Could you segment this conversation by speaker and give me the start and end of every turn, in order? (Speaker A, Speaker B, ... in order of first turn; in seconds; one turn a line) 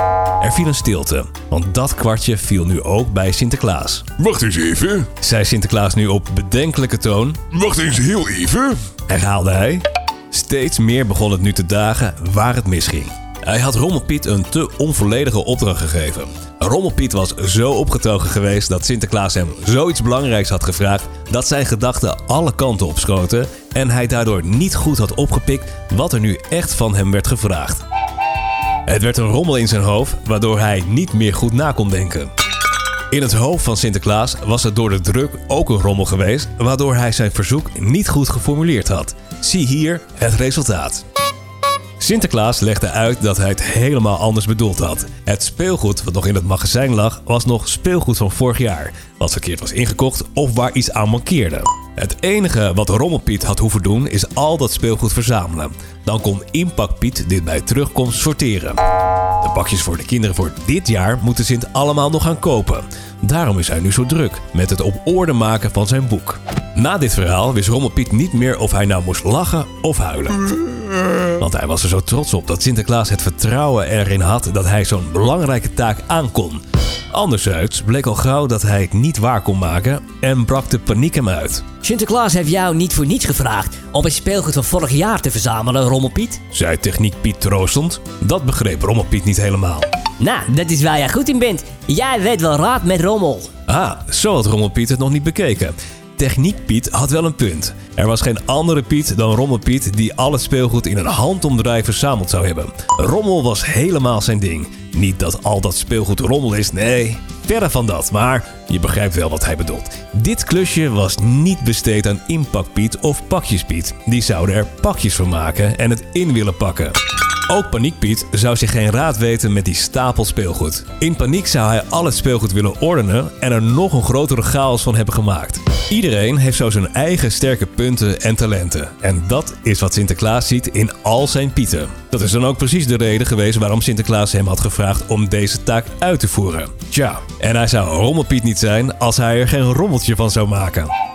Speaker A: 0.4-4.1
Speaker B: 4.2-5.1
Speaker A: 5.2-7.4
Speaker B: 7.5-8.8
Speaker A: 9.1-27.8
Speaker A: 28.9-32.3
Speaker A: 33.1-41.0
Speaker A: 42.0-58.8
Speaker A: 59.4-70.4
Speaker A: 71.4-81.7
Speaker C: 81.8-86.4
Speaker A: 86.5-89.8
Speaker C: 90.2-93.5
Speaker A: 93.7-117.0
Speaker A: 117.5-140.9